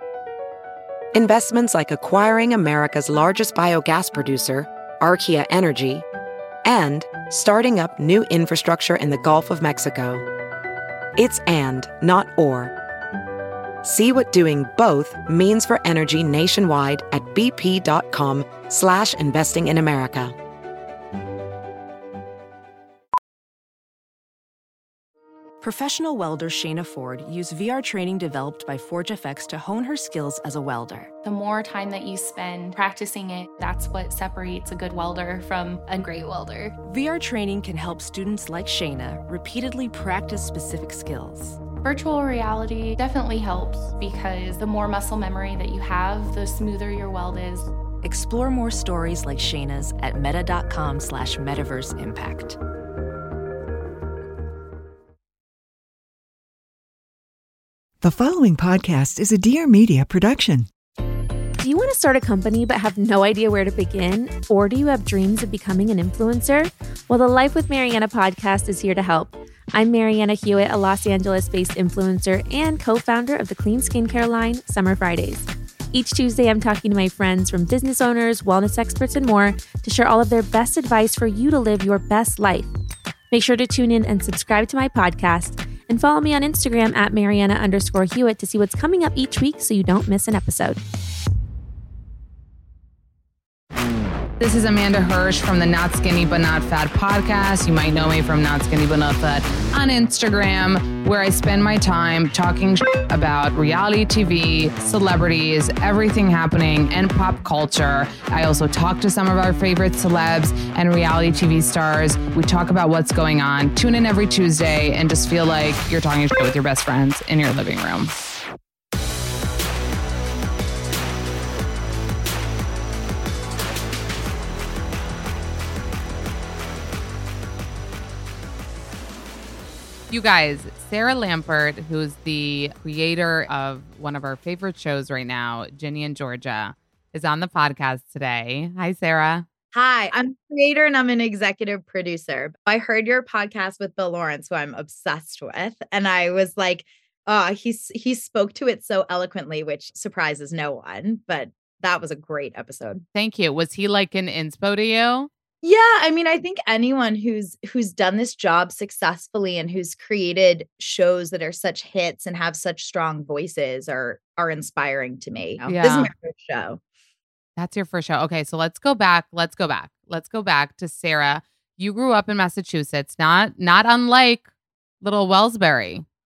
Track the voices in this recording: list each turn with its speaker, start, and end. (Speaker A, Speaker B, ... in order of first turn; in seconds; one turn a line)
Speaker A: 1.1-6.0
Speaker A: 6.6-10.2
Speaker A: 11.2-12.7
Speaker A: 13.8-20.3
Speaker B: 25.6-31.1
Speaker C: 31.2-36.7
Speaker B: 36.8-41.6
Speaker C: 41.8-47.7
Speaker B: 48.0-52.6
Speaker D: 58.0-60.7
Speaker E: 61.6-82.7
Speaker E: 83.3-90.8
Speaker F: 94.4-118.1
Speaker F: 130.1-139.4
Speaker G: 139.7-153.0
Speaker F: 153.1-155.3
Speaker G: 155.6-166.8
Speaker F: 165.6-166.1
Speaker F: 167.6-174.4
Speaker F: 175.0-176.0